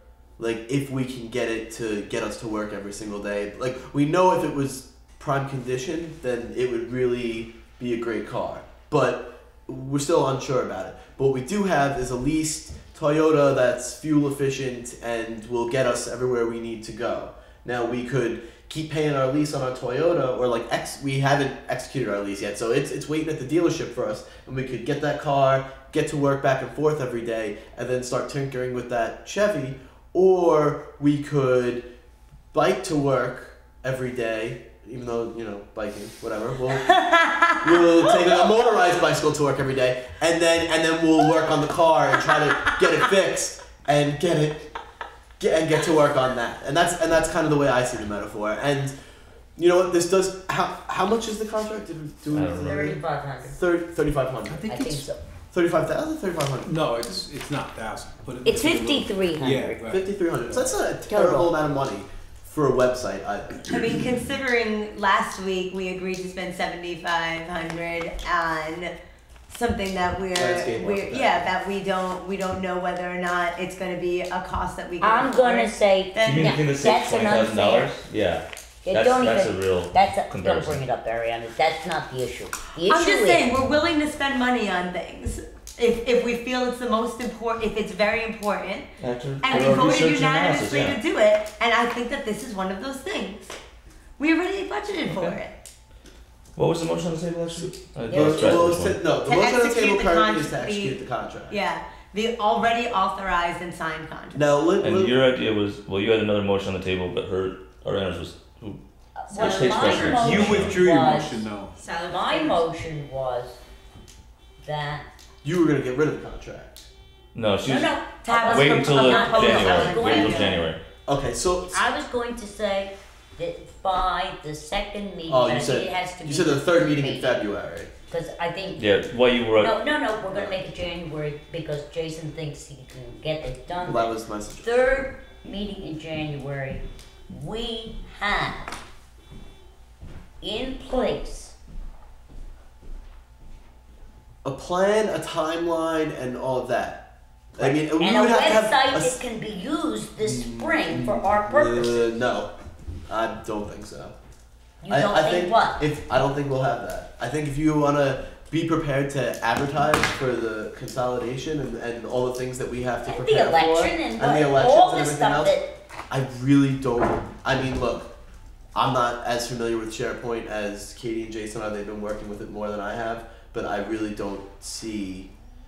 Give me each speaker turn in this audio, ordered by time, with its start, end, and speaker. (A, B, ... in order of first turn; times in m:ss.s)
0:00.4-0:31.9 A
0:32.5-0:37.0 A
0:36.8-0:38.3 B
0:37.6-0:44.7 A
0:42.2-0:42.8 B
0:45.4-0:49.0 A
0:49.6-0:54.7 A
0:52.3-0:52.9 C
0:52.5-0:53.6 D
0:54.5-0:55.1 E
0:54.7-0:55.2 D
0:55.5-0:56.7 A
0:56.6-1:00.7 E
0:58.4-0:59.8 D
0:59.9-1:04.0 A
1:01.1-1:01.5 D
1:03.7-1:08.9 B
1:09.5-1:16.6 B
1:10.3-1:11.5 A
1:15.0-1:17.9 D
1:16.2-1:20.8 C
1:18.8-1:23.5 D
1:22.8-1:28.9 B
1:29.0-1:31.0 C
1:29.4-1:33.5 B
1:34.2-1:35.6 B
1:35.1-1:35.4 C
1:36.6-1:39.0 C
1:38.1-1:38.7 D
1:38.1-1:41.6 A
1:39.2-1:44.5 B
1:44.3-1:45.2 A
1:44.8-1:48.8 C
1:49.2-1:51.4 D
1:49.3-1:50.9 C
1:49.6-1:51.9 E
1:51.8-1:52.3 B
1:52.0-1:53.6 D
1:54.6-1:55.0 D
1:55.4-1:56.9 A
1:57.3-2:00.8 C
1:57.6-2:00.7 D
1:58.2-2:00.5 B
2:01.1-2:01.8 A
2:01.7-2:07.4 D
2:05.3-2:07.9 A
2:08.1-2:08.9 D
2:08.8-2:09.7 C
2:09.6-2:18.7 D
2:10.3-2:10.6 A
2:13.8-2:14.8 A
2:20.4-2:21.6 D
2:24.4-2:29.2 A
2:27.6-2:32.1 D
2:30.2-2:32.5 A
2:33.1-2:34.1 A
2:34.8-2:35.8 D
2:34.9-2:45.6 A
2:43.0-2:45.7 D
2:46.1-2:48.1 A
2:48.8-2:55.3 A